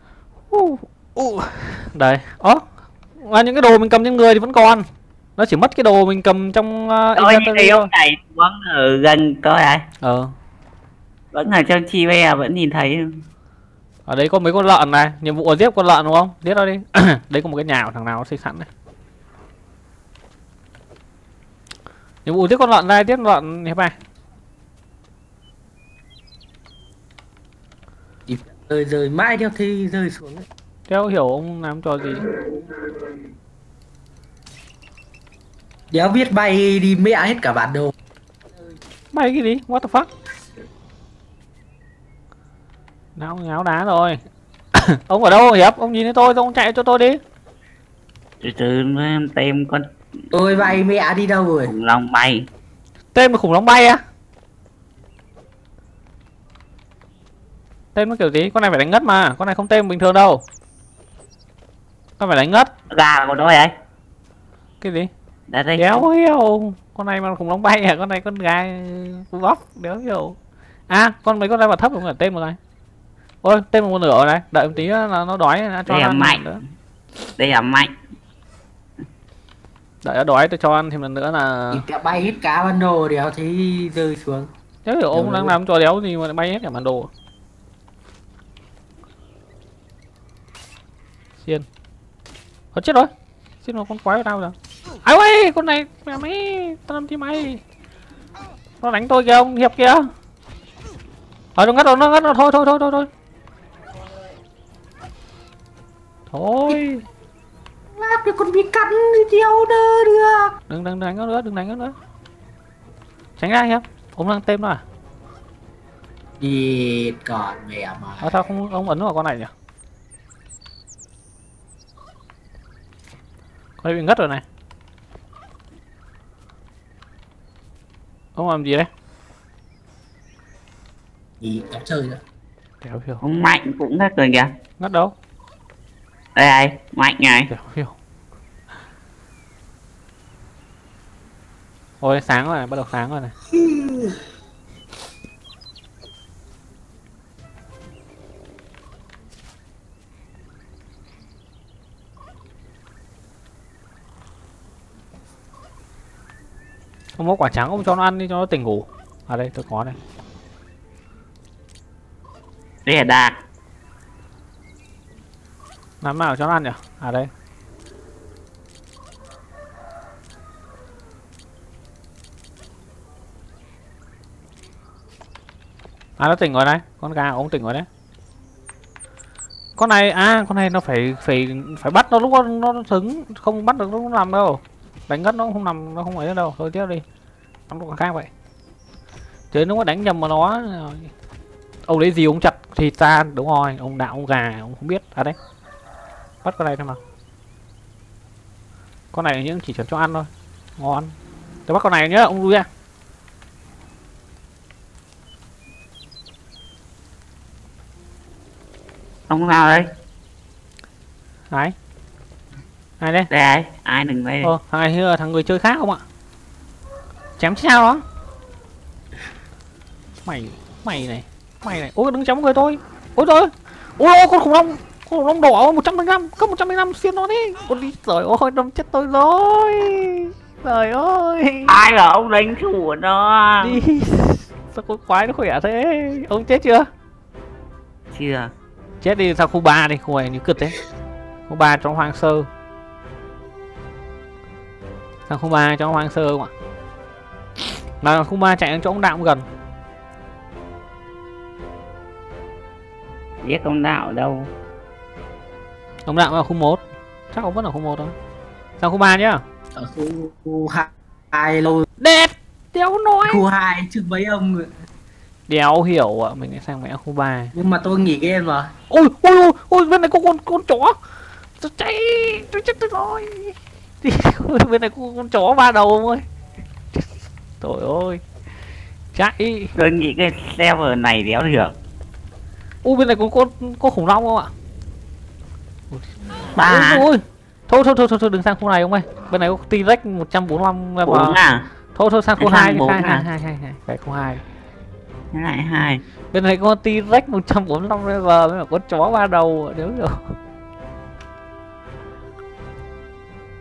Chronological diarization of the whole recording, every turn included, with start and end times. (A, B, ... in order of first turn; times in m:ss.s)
0:00.5-0:02.6 A
0:03.2-0:04.9 A
0:05.4-0:07.9 A
0:07.2-0:09.9 B
0:10.0-0:10.3 A
0:11.3-0:13.2 B
0:14.1-0:18.7 A
0:22.2-0:23.9 A
0:28.3-0:30.5 C
0:30.9-0:32.3 A
0:35.9-0:37.9 C
0:39.1-0:40.1 A
0:43.2-0:44.2 A
0:44.7-0:47.2 A
0:48.4-0:49.9 B
0:50.3-0:51.7 C
0:51.6-0:52.5 B
0:53.1-0:54.0 A
0:58.0-1:00.4 A
1:02.2-1:02.7 A
1:02.9-1:03.7 B
1:04.8-1:05.1 A
1:05.5-1:06.0 B
1:05.8-1:10.4 A
1:10.9-1:12.6 A
1:13.4-1:16.6 A
1:15.9-1:16.4 B
1:17.4-1:17.9 B
1:20.0-1:21.8 A
1:21.7-1:24.5 C
1:24.8-1:27.1 A
1:25.1-1:25.6 C
1:32.7-1:33.1 A
1:33.6-1:37.6 A
1:38.8-1:40.1 A
1:41.6-1:43.1 A
1:46.3-1:47.0 A
1:48.0-1:50.6 C
1:50.7-1:52.0 A
1:53.4-1:54.8 A
1:56.4-1:58.4 C
1:58.2-1:59.5 A
2:03.8-2:04.4 A
2:08.4-2:08.9 A
2:11.4-2:12.2 C
2:12.8-2:13.2 A
2:13.2-2:14.5 B
2:14.8-2:15.1 A
2:16.4-2:17.5 B
2:17.5-2:17.9 A
2:22.0-2:23.3 A
2:23.5-2:24.2 C
2:37.2-2:40.0 A
2:42.9-2:43.4 B
2:46.0-2:47.3 A
2:56.2-2:57.9 A
2:59.8-3:07.0 A
3:07.7-3:08.3 A
3:09.5-3:11.1 A
3:11.9-3:15.4 A
3:16.4-3:17.0 A
3:19.1-3:21.1 A
3:21.7-3:22.7 A
3:29.3-3:29.9 B
3:33.0-3:33.3 A
3:33.3-3:34.5 B
3:34.4-3:36.0 A
3:37.4-3:38.0 A
3:40.3-3:51.8 A
3:51.7-3:53.8 B
3:53.6-3:56.9 A
3:58.1-3:58.5 B
3:59.0-4:00.8 A
4:01.5-4:02.5 A
4:05.3-4:06.5 A
4:08.0-4:09.4 A
4:13.4-4:14.5 B
4:16.1-4:18.2 A
4:18.8-4:19.4 A
4:19.8-4:21.9 C
4:22.0-4:23.4 A
4:23.3-4:24.7 C
4:25.5-4:27.5 A
4:27.5-4:28.7 C
4:28.9-4:31.0 A
4:31.6-4:36.2 A
4:36.9-4:38.2 A
4:39.2-4:39.7 A
4:39.8-4:41.8 B
4:42.8-4:44.5 A
4:45.9-4:51.4 A
4:46.6-4:47.0 B
4:51.1-4:51.7 B
4:52.0-4:54.4 A
4:52.4-4:53.2 B
4:55.3-4:56.0 B
4:56.3-5:00.4 A